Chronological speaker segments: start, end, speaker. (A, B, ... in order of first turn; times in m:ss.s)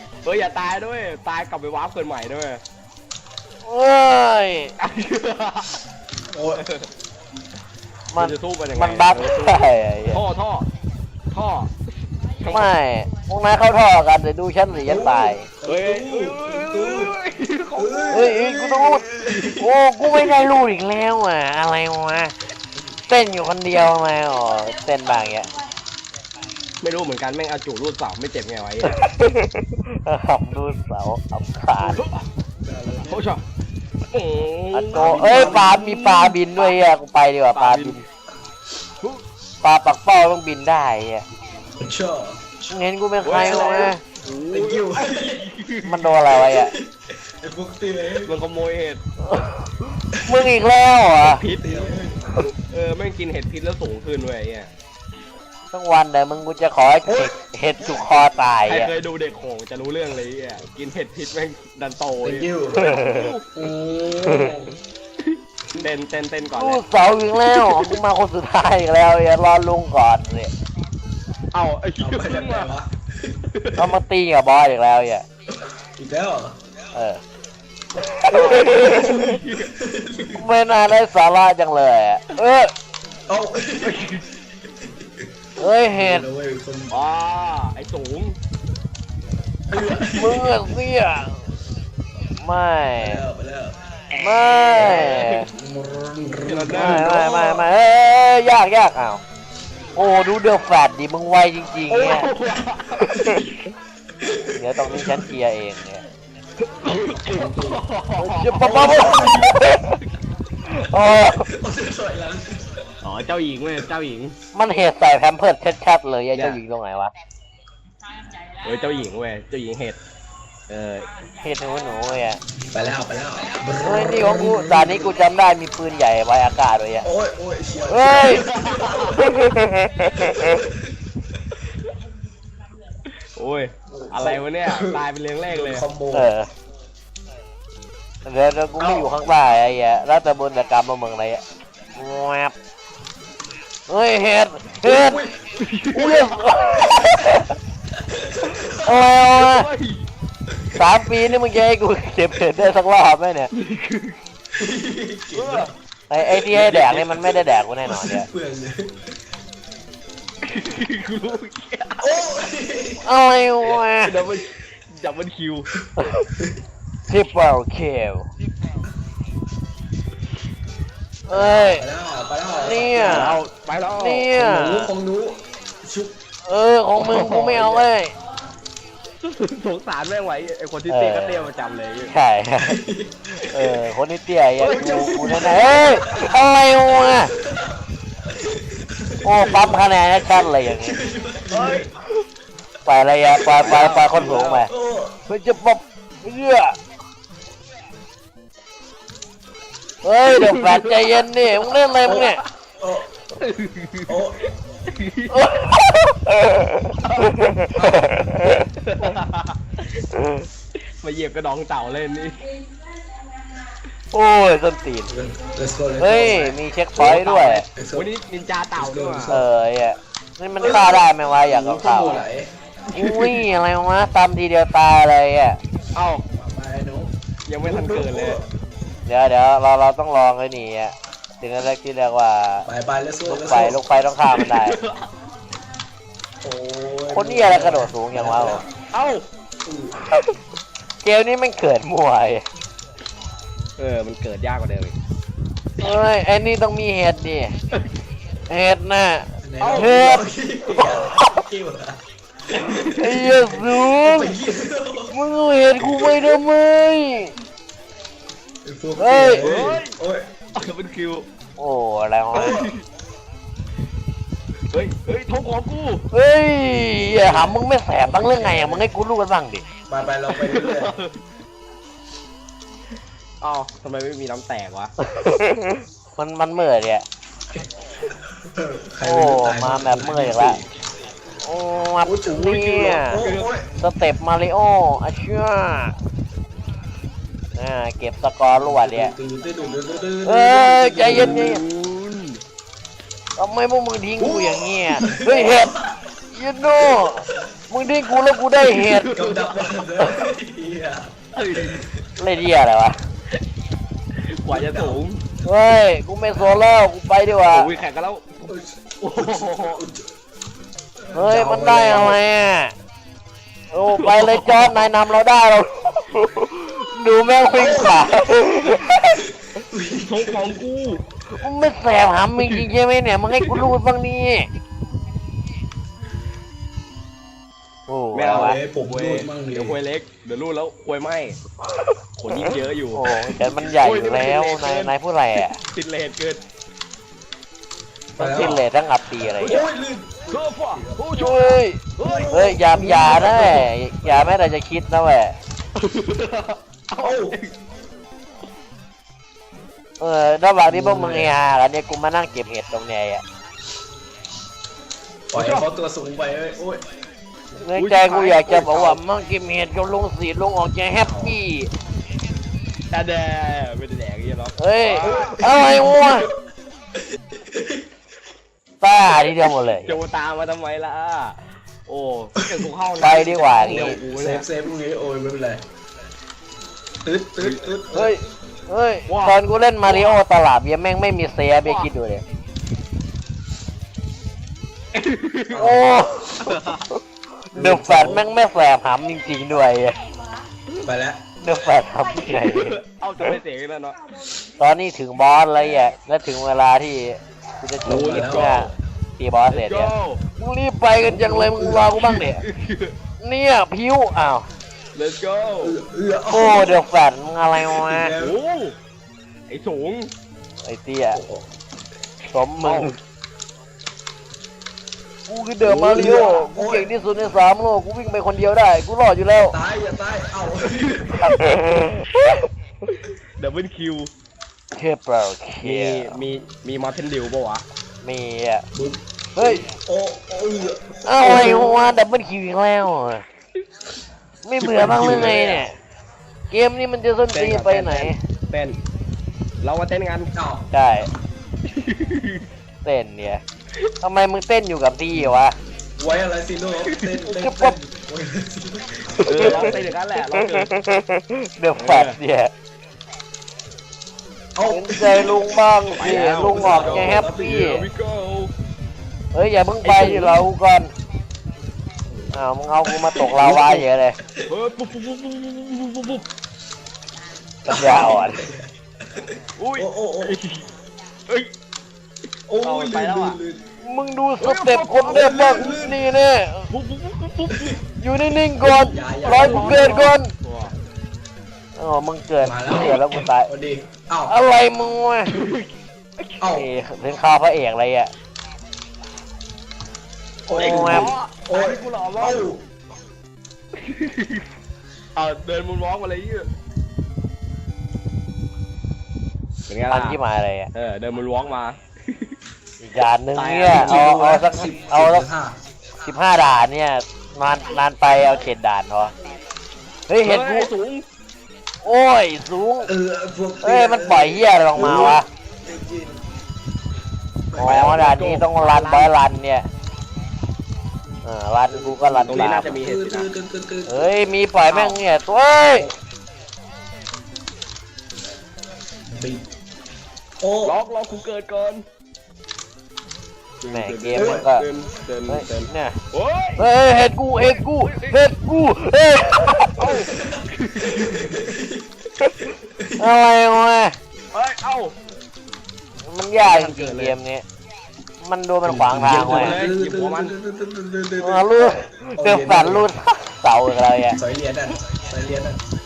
0:00.2-0:02.6 A
0:03.6-0:04.7 B
0:04.8-0:05.7 A
0:06.3-0:06.6 C
0:06.6-0:06.9 A
0:08.1-0:10.2 B
0:08.2-0:10.7 A
0:11.3-0:11.8 A
0:12.4-0:12.7 A
0:12.4-0:15.5 B
0:14.8-0:17.1 C
0:15.6-0:18.0 A
0:17.8-0:19.7 C
0:18.1-0:19.0 B
0:19.6-0:22.3 B
0:20.1-0:20.4 A
0:23.1-0:25.5 B
0:26.8-0:29.0 A
0:28.9-0:32.0 B
0:31.8-0:33.3 C
0:32.0-0:32.2 A
0:33.0-0:33.4 A
0:34.1-0:36.7 A
0:34.7-0:38.0 B
0:34.9-0:35.8 C
0:37.5-0:38.0 A
0:39.6-0:41.2 B
0:41.8-0:42.4 C
0:42.7-0:44.0 B
0:43.2-0:46.1 A
0:43.3-0:43.9 C
0:44.5-0:45.4 C
0:45.8-0:46.7 B
0:46.3-0:48.3 C
0:48.2-0:49.0 A
0:49.2-0:51.4 B
0:50.2-0:50.4 C
0:51.2-0:52.0 A
0:51.6-0:52.4 C
0:52.5-0:54.7 A
0:55.7-0:58.9 B
0:57.1-0:57.3 C
0:58.7-1:03.5 A
1:02.2-1:02.8 C
1:02.7-1:03.3 B
1:03.5-1:04.8 C
1:05.2-1:06.8 A
1:06.5-1:10.5 B
1:07.5-1:08.0 A
1:11.5-1:12.7 A
1:12.0-1:13.4 C
1:13.5-1:14.0 A
1:13.8-1:15.2 B
1:15.6-1:16.6 C
1:16.9-1:17.2 B
1:18.0-1:19.4 B
1:18.3-1:19.7 A
1:19.7-1:20.4 C
1:20.3-1:22.7 B
1:23.3-1:24.1 C
1:23.8-1:24.2 A
1:24.8-1:25.3 C
1:25.6-1:26.3 B
1:25.9-1:26.9 C
1:26.9-1:28.4 A
1:29.7-1:30.6 C
1:30.1-1:31.5 B
1:32.4-1:33.2 B
1:33.0-1:33.8 C
1:34.1-1:35.5 A
1:34.2-1:35.5 B
1:34.8-1:37.6 C
1:36.4-1:37.5 A
1:36.7-1:39.2 B
1:40.0-1:42.3 B
1:41.9-1:43.5 A
1:43.1-1:43.4 B
1:44.2-1:45.3 C
1:44.5-1:46.0 B
1:46.6-1:49.7 A
1:47.3-1:47.8 C
1:48.2-1:50.0 B
1:48.6-1:49.6 C
1:50.6-1:51.5 B
1:51.3-1:52.9 C
1:53.0-1:54.4 A
1:54.5-1:57.1 B
1:56.3-1:56.6 A
1:58.6-2:00.0 A
2:00.7-2:01.1 A
2:01.4-2:02.4 B
2:02.7-2:05.2 C
2:03.8-2:07.1 B
2:07.0-2:09.3 C
2:07.9-2:08.4 B
2:08.4-2:09.4 A
2:09.3-2:10.6 B
2:10.1-2:10.8 C
2:13.4-2:15.8 A
2:13.9-2:16.3 C
2:16.1-2:16.5 B
2:18.2-2:21.4 B
2:18.8-2:19.1 C
2:22.0-2:22.5 B
2:23.9-2:25.2 B
2:24.8-2:25.4 C
2:25.5-2:26.3 A
2:25.9-2:27.6 B
2:26.5-2:29.0 C
2:28.8-2:29.7 B
2:29.2-2:30.0 A
2:30.8-2:33.5 B
2:33.5-2:34.2 A
2:34.6-2:35.7 C
2:35.3-2:35.7 A
2:36.1-2:38.3 B
2:36.5-2:37.2 A
2:36.8-2:39.2 C
2:40.4-2:42.1 A
2:42.0-2:43.0 C
2:43.0-2:44.2 B
2:43.7-2:45.7 A
2:46.0-2:46.3 B
2:47.1-2:48.3 B
2:51.3-2:51.8 B
2:51.3-2:53.4 C
2:52.5-2:53.4 B
2:52.8-2:54.3 A
2:54.0-2:54.9 B
2:54.3-2:56.1 C
2:56.5-2:58.1 B
2:57.0-2:57.9 A
2:59.2-3:02.1 A
3:00.9-3:01.5 B
3:02.1-3:02.8 B
3:02.6-3:03.3 C
3:03.5-3:07.3 B
3:04.6-3:06.4 A
3:04.7-3:06.4 C
3:07.3-3:10.0 C
3:09.2-3:11.0 B
3:10.6-3:11.9 C
3:11.5-3:12.2 A
3:12.9-3:14.7 B
3:13.4-3:14.7 A
3:13.6-3:15.2 C
3:15.3-3:16.8 B
3:20.0-3:22.4 B
3:20.3-3:22.4 A
3:22.0-3:23.1 C
3:23.4-3:25.5 A
3:24.1-3:24.5 C
3:25.3-3:28.7 B
3:27.0-3:27.3 A
3:27.8-3:28.3 C
3:28.8-3:29.9 A
3:30.2-3:30.4 B
3:31.0-3:32.4 A
3:34.1-3:35.1 B
3:35.1-3:36.6 C
3:36.0-3:37.7 B
3:37.0-3:39.3 A
3:37.8-3:38.1 C
3:38.8-3:39.5 C
3:39.3-3:42.2 B
3:40.6-3:42.5 C
3:42.9-3:43.4 A
3:42.9-3:45.6 B
3:46.0-3:46.2 A
3:46.3-3:48.4 C
3:47.5-3:48.4 A
3:49.1-3:52.7 B
3:52.7-3:53.8 C
3:53.2-3:54.8 B
3:54.2-3:55.1 A
3:56.4-3:58.7 C
3:57.1-3:58.6 B
3:58.9-3:59.2 A
3:59.6-4:00.0 C
4:01.0-4:02.4 B
4:03.8-4:05.0 A
4:05.8-4:07.6 B
4:08.5-4:10.2 B
4:09.4-4:12.0 C
4:09.6-4:10.1 A
4:10.8-4:11.3 B
4:12.5-4:15.2 C
4:12.6-4:13.1 A
4:12.9-4:14.3 B
4:15.1-4:17.3 B
4:15.8-4:16.3 C
4:18.6-4:20.4 C
4:19.0-4:19.5 B
4:19.4-4:20.0 A
4:20.6-4:21.2 A
4:21.6-4:22.6 B
4:22.3-4:22.7 C
4:22.3-4:22.8 A
4:24.7-4:26.0 A
4:26.1-4:29.6 B
4:27.0-4:28.9 C
4:29.9-4:30.9 C
4:30.3-4:31.2 A
4:33.4-4:34.9 A
4:35.1-4:37.0 B
4:38.3-4:40.7 C
4:39.0-4:40.6 B
4:41.4-4:43.2 B
4:42.0-4:43.7 C
4:42.8-4:43.5 A
4:43.8-4:45.9 B
4:47.6-4:49.2 B
4:48.5-4:51.6 C
4:50.2-4:51.6 B
4:51.0-4:52.4 A
4:53.4-4:55.7 B
4:54.2-4:55.9 C
4:56.3-4:59.1 B
4:58.7-4:59.8 A
4:59.1-5:01.8 C
5:01.4-5:01.8 A
5:02.2-5:03.0 B
5:04.3-5:05.2 A
5:04.5-5:05.0 C
5:05.4-5:07.7 B
5:06.4-5:06.8 C
5:07.4-5:09.8 A
5:08.5-5:10.1 C
5:11.0-5:12.2 C
5:11.1-5:12.7 B
5:13.7-5:19.3 B
5:13.9-5:14.9 A
5:17.5-5:18.2 C
5:19.5-5:20.6 C
5:20.0-5:21.0 A
5:21.3-5:24.5 B
5:22.4-5:22.7 A
5:23.3-5:23.7 A
5:27.9-5:28.6 B
5:28.1-5:31.4 A
5:28.3-5:29.8 C
5:32.2-5:36.4 A
5:32.5-5:35.6 B
5:38.2-5:41.0 C
5:38.2-5:39.7 B
5:40.3-5:42.4 A
5:41.2-5:45.4 B
5:42.0-5:44.3 C
5:45.8-5:47.5 A
5:47.0-5:47.4 C
5:50.0-5:53.2 B
5:50.6-5:51.3 C
5:55.3-5:56.8 C
5:55.4-5:55.7 A
5:57.6-6:01.7 B
5:57.7-5:59.0 A
6:01.0-6:01.4 C
6:02.9-6:05.4 A
6:04.6-6:06.3 B
6:05.0-6:06.3 C
6:07.3-6:07.8 C
6:08.8-6:10.0 B
6:09.8-6:14.5 A
6:13.0-6:14.0 B
6:13.6-6:15.6 C
6:17.0-6:18.2 C
6:17.9-6:22.2 B
6:19.1-6:20.2 A
6:21.6-6:21.9 A
6:24.9-6:25.7 A
6:25.5-6:26.5 C
6:25.6-6:27.0 B
6:26.4-6:26.9 A
6:27.5-6:30.0 B
6:27.5-6:28.3 C
6:30.8-6:31.3 C
6:31.4-6:32.8 B
6:32.3-6:34.0 A
6:34.6-6:42.4 B
6:37.8-6:38.7 C
6:37.8-6:38.7 A
6:39.5-6:40.2 A
6:41.0-6:42.3 C
6:42.1-6:42.9 A
6:43.2-6:44.5 B
6:45.0-6:45.8 A
6:45.6-6:46.8 C
6:46.3-6:48.1 B
6:47.6-6:48.4 C
6:48.2-6:48.8 A
6:49.5-6:50.1 A
6:50.6-6:51.2 B
6:51.1-6:51.5 C
6:52.3-6:52.9 B
6:52.6-6:53.0 A
6:55.3-6:59.6 B
6:55.6-6:56.2 A
6:55.9-6:56.9 C
6:59.3-7:01.6 C
7:01.2-7:02.5 B
7:03.4-7:04.1 A
7:04.8-7:06.2 B
7:05.6-7:07.6 A
7:08.0-7:08.6 B
7:08.7-7:11.9 C
7:09.4-7:09.6 B
7:11.0-7:13.2 B
7:14.4-7:15.8 B
7:14.6-7:15.4 C
7:14.8-7:15.6 A
7:16.5-7:18.2 B
7:17.3-7:18.8 A
7:19.6-7:20.3 A
7:20.3-7:20.7 C
7:20.7-7:21.1 B
7:21.7-7:22.5 A
7:22.8-7:23.4 B
7:24.0-7:25.6 B
7:26.0-7:29.9 C
7:26.9-7:27.2 A
7:27.3-7:27.8 B
7:29.2-7:29.8 B
7:29.3-7:30.7 A
7:30.3-7:32.5 B
7:31.8-7:32.2 A
7:34.6-7:37.8 C
7:34.7-7:37.9 B
7:36.0-7:38.5 A
7:39.3-7:40.9 B
7:39.8-7:40.4 A
7:42.3-7:44.2 B
7:43.3-7:44.5 C
7:44.5-7:46.2 A
7:47.7-7:48.5 B
7:47.7-7:50.4 C
7:49.6-7:50.6 A
7:52.5-7:53.6 C
7:52.6-7:53.4 A
7:53.8-7:56.7 B
7:54.4-7:55.7 A
7:55.1-7:56.0 C
7:56.7-7:57.8 A
7:57.5-7:57.8 C
7:58.0-8:00.3 B
7:58.6-8:00.1 C
7:59.2-8:00.7 A
8:01.8-8:03.5 B
8:02.4-8:04.4 C
8:04.3-8:05.3 B
8:05.3-8:06.4 A
8:06.4-8:06.7 C
8:06.5-8:08.1 B
8:10.5-8:12.6 C
8:10.5-8:12.5 A
8:10.5-8:11.1 B
8:13.7-8:14.5 A
8:15.2-8:16.5 A
8:19.7-8:20.2 A
8:19.9-8:20.7 B
8:20.7-8:22.4 A
8:22.8-8:25.3 B
8:23.4-8:24.1 A
8:23.7-8:25.6 C
8:26.0-8:29.1 B
8:30.1-8:30.7 B
8:30.2-8:31.0 A
8:31.8-8:32.9 B
8:32.9-8:36.2 C
8:33.6-8:35.3 B
8:37.5-8:38.1 C
8:37.6-8:39.7 B
8:37.6-8:39.1 A
8:41.2-8:42.8 B
8:41.7-8:44.3 C
8:42.3-8:43.3 A
8:43.9-8:45.9 B
8:44.7-8:45.0 A
8:49.1-8:49.5 C
8:50.4-8:50.8 C
8:50.6-8:51.8 A
8:53.6-8:56.7 A
8:53.7-8:54.7 B
8:54.1-8:54.5 C
8:55.3-8:56.0 B
8:56.6-9:00.0 B
8:57.4-8:58.2 A
8:59.8-9:01.3 A
9:00.1-9:01.9 C
9:02.4-9:03.1 C
9:03.0-9:04.0 B
9:04.3-9:05.0 A
9:06.0-9:07.4 B
9:06.4-9:07.2 A
9:08.2-9:09.6 B
9:08.6-9:12.9 C
9:09.2-9:10.3 A
9:11.2-9:14.2 B
9:14.1-9:15.6 C